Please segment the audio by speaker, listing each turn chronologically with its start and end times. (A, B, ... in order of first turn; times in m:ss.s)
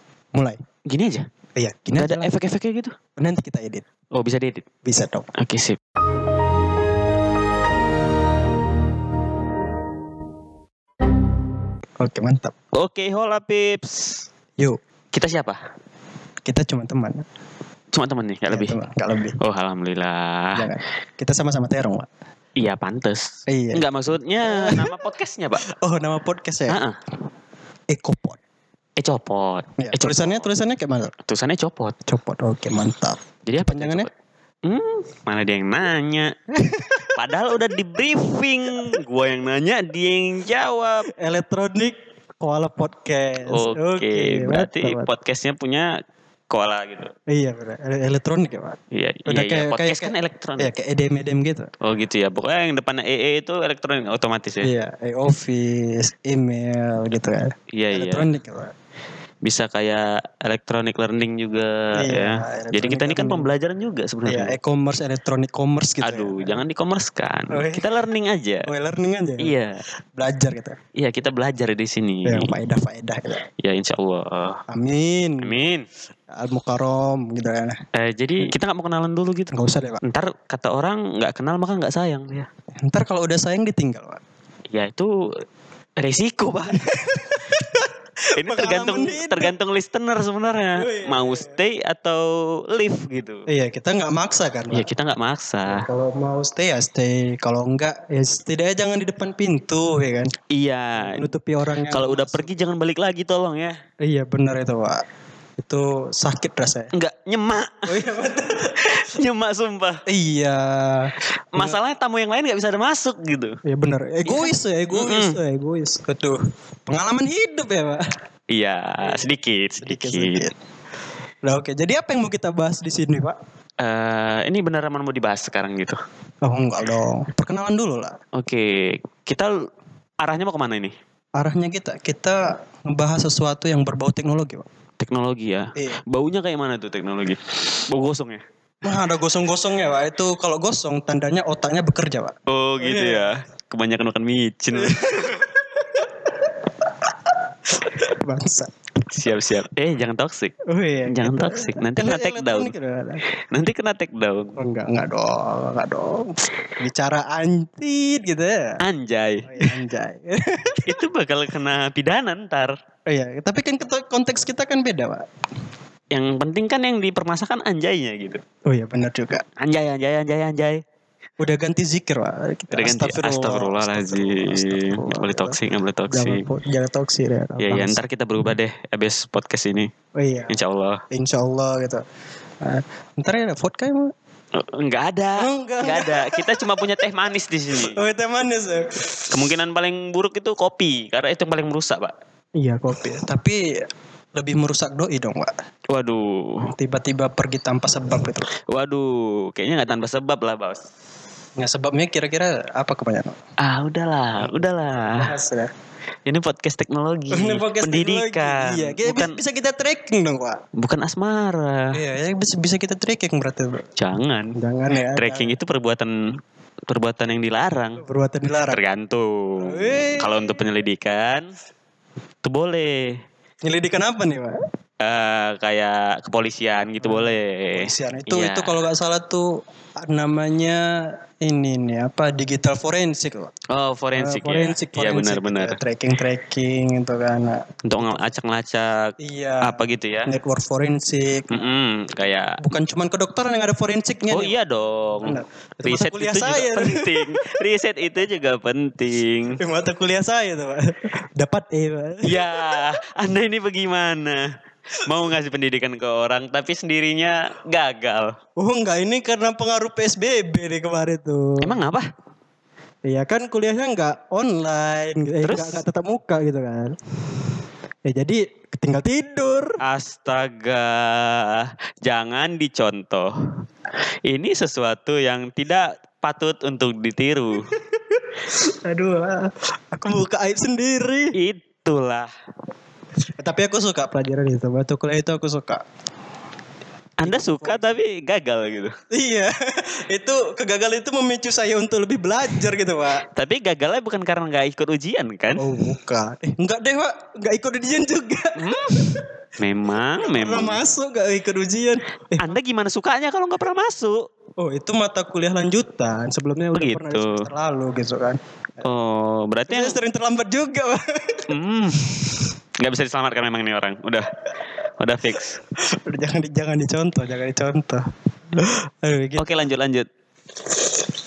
0:00.9-0:01.2 A
0:01.6-0:02.3 B
0:02.0-0:02.9 A
0:03.2-0:03.8 B
0:04.1-0:04.6 A
0:04.8-0:05.3 B
0:05.4-0:05.8 A
0:12.0-0:12.5 B
0:12.8-0:14.2 A
0:15.1-0:15.6 A
0:16.4-0:17.2 B
0:17.9-0:18.7 A
0:18.5-0:19.4 B
0:19.4-0:20.7 A
0:20.5-0:22.1 B
0:22.6-0:25.6 A
0:23.5-0:23.8 B
0:24.5-0:24.8 B
0:25.7-0:26.8 B
0:26.7-0:27.0 A
0:27.9-0:28.4 B
0:29.0-0:30.4 A
0:29.8-0:31.1 B
0:31.3-0:32.0 A
0:32.1-0:34.1 B
0:33.4-0:34.1 A
0:34.6-0:36.3 A
0:36.6-0:37.1 B
0:37.1-0:41.1 A
0:41.2-0:45.1 B
0:43.4-0:45.9 A
0:46.5-0:47.1 A
0:47.3-0:51.7 B
0:48.9-0:50.7 A
0:51.8-0:54.7 A
0:54.6-0:58.7 B
0:57.7-0:58.3 A
0:59.4-1:04.5 A
1:02.0-1:03.5 B
1:04.2-1:06.6 B
1:06.0-1:08.6 A
1:07.5-1:07.8 B
1:08.6-1:09.5 B
1:09.4-1:09.8 A
1:10.2-1:10.8 B
1:11.0-1:12.5 A
1:12.2-1:13.4 B
1:13.6-1:14.6 A
1:14.7-1:15.6 B
1:15.4-1:15.8 A
1:16.3-1:17.8 B
1:17.9-1:19.5 A
1:19.5-1:20.0 B
1:20.0-1:22.5 A
1:22.8-1:24.2 B
1:24.7-1:25.1 A
1:26.0-1:26.8 A
1:26.7-1:29.5 B
1:28.4-1:33.4 A
1:30.8-1:31.6 B
1:33.5-1:34.9 B
1:34.7-1:35.9 A
1:35.7-1:40.3 B
1:40.5-1:41.2 A
1:41.0-1:42.6 B
1:41.9-1:43.8 A
1:44.0-1:45.0 B
1:45.6-1:46.9 B
1:46.9-1:47.9 A
1:47.9-1:48.8 B
1:48.8-1:50.0 A
1:50.1-1:51.8 B
1:51.5-1:53.6 A
1:53.6-1:58.0 B
1:54.2-1:55.4 A
1:58.5-2:00.4 A
1:59.8-2:00.5 B
2:01.4-2:03.4 B
2:03.8-2:06.0 A
2:06.4-2:08.2 B
2:08.4-2:09.5 A
2:10.2-2:10.9 A
2:11.4-2:14.6 B
2:15.0-2:18.4 A
2:15.7-2:16.0 B
2:18.8-2:23.3 B
2:22.5-2:25.4 A
2:24.7-2:26.5 B
2:27.8-2:28.7 B
2:29.1-2:30.5 A
2:30.7-2:33.2 B
2:31.1-2:32.7 A
2:33.5-2:34.6 A
2:34.6-2:38.8 B
2:38.8-2:39.7 A
2:39.5-2:40.9 B
2:40.9-2:42.8 A
2:43.1-2:45.2 B
2:46.1-2:48.4 A
2:48.7-2:49.4 B
2:49.6-2:50.8 A
2:51.4-2:58.0 B
2:52.7-2:56.4 A
2:57.6-2:59.9 A
3:00.2-3:00.6 B
3:00.5-3:01.0 A
3:01.1-3:02.0 B
3:02.6-3:04.1 B
3:04.6-3:08.0 A
3:05.4-3:06.4 B
3:07.7-3:09.3 B
3:09.3-3:12.1 A
3:12.6-3:13.6 B
3:14.4-3:15.5 B
3:15.9-3:16.7 A
3:16.7-3:18.5 B
3:18.7-3:20.8 A
3:21.6-3:23.4 B
3:23.6-3:25.3 A
3:25.0-3:25.7 B
3:26.2-3:29.3 A
3:27.3-3:30.6 B
3:30.8-3:32.0 A
3:31.9-3:33.9 B
3:34.0-3:34.5 A
3:34.6-3:35.6 B
3:35.2-3:36.1 A
3:36.9-3:38.0 A
3:38.0-3:38.8 B
3:38.7-3:41.5 A
3:39.6-3:40.6 B
3:42.4-3:43.2 A
3:43.6-3:44.6 B
3:45.0-3:48.8 A
3:47.0-3:49.5 B
3:50.0-3:53.5 B
3:53.7-3:55.8 A
3:54.1-3:58.3 B
3:57.8-3:59.1 A
3:59.2-4:01.6 B
3:59.6-4:00.3 A
4:01.5-4:02.6 A
4:02.6-4:04.5 B
4:04.3-4:09.6 A
4:05.2-4:07.5 B
4:09.6-4:12.7 B
4:12.2-4:14.4 A
4:15.0-4:18.4 A
4:18.6-4:21.8 B
4:21.6-4:22.1 A
4:23.0-4:27.0 B
4:25.4-4:25.8 A
4:28.0-4:29.8 B
4:29.8-4:33.3 A
4:34.3-4:37.7 A
4:37.7-4:38.2 B
4:38.8-4:41.3 B
4:41.4-4:42.3 A
4:43.4-4:45.8 B
4:47.2-4:48.9 A
4:47.2-4:47.8 B
4:49.1-4:53.2 B
4:53.3-4:55.6 A
4:55.6-4:59.2 B
4:58.6-5:00.8 A
5:00.2-5:02.5 B
5:02.4-5:04.2 A
5:04.6-5:08.8 B
5:06.7-5:07.4 A
5:08.8-5:10.0 A
5:09.7-5:11.4 B
5:11.5-5:12.1 A
5:12.8-5:14.3 A
5:15.0-5:15.6 A
5:16.0-5:18.0 B
5:18.6-5:19.5 B
5:19.4-5:20.1 A